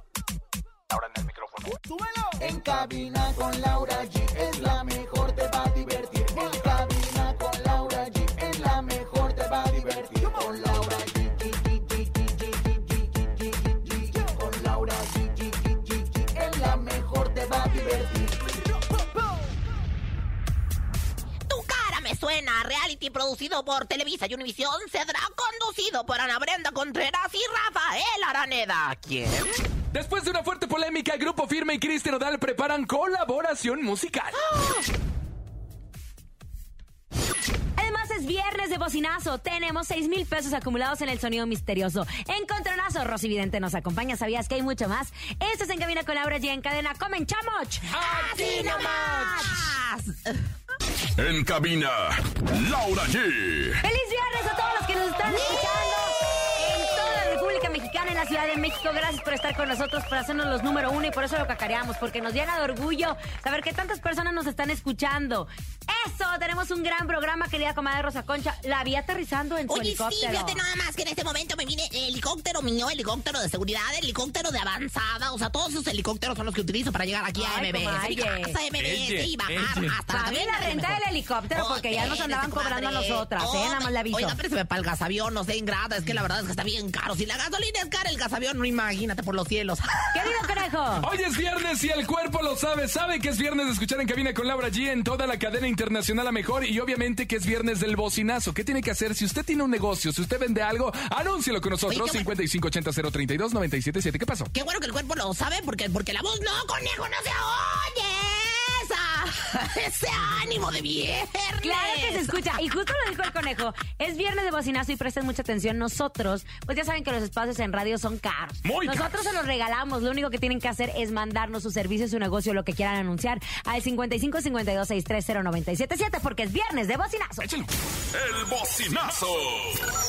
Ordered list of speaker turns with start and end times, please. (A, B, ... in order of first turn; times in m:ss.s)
0:00.9-0:01.8 A
0:02.3-0:18.4 B
0:06.2-0:07.0 A
0:09.6-0:10.8 A
0:21.5-0:29.5 C
0:29.9-0:34.4 D
0:37.8-0:47.9 E
0:47.9-0:49.3 D
0:47.9-0:50.4 C
0:51.2-0:53.8 F
0:53.8-1:10.6 E
0:55.4-0:55.7 C
1:09.7-1:21.0 C
1:17.4-1:18.6 E
1:18.8-1:20.0 D
1:20.1-1:24.4 E
1:21.5-1:30.2 C
1:30.1-1:31.1 E
1:31.0-1:44.5 D
1:41.9-1:42.3 C
1:44.5-1:52.4 C
1:51.6-2:07.5 E
1:58.6-1:59.1 D
2:07.4-2:07.7 D
2:08.1-2:09.9 F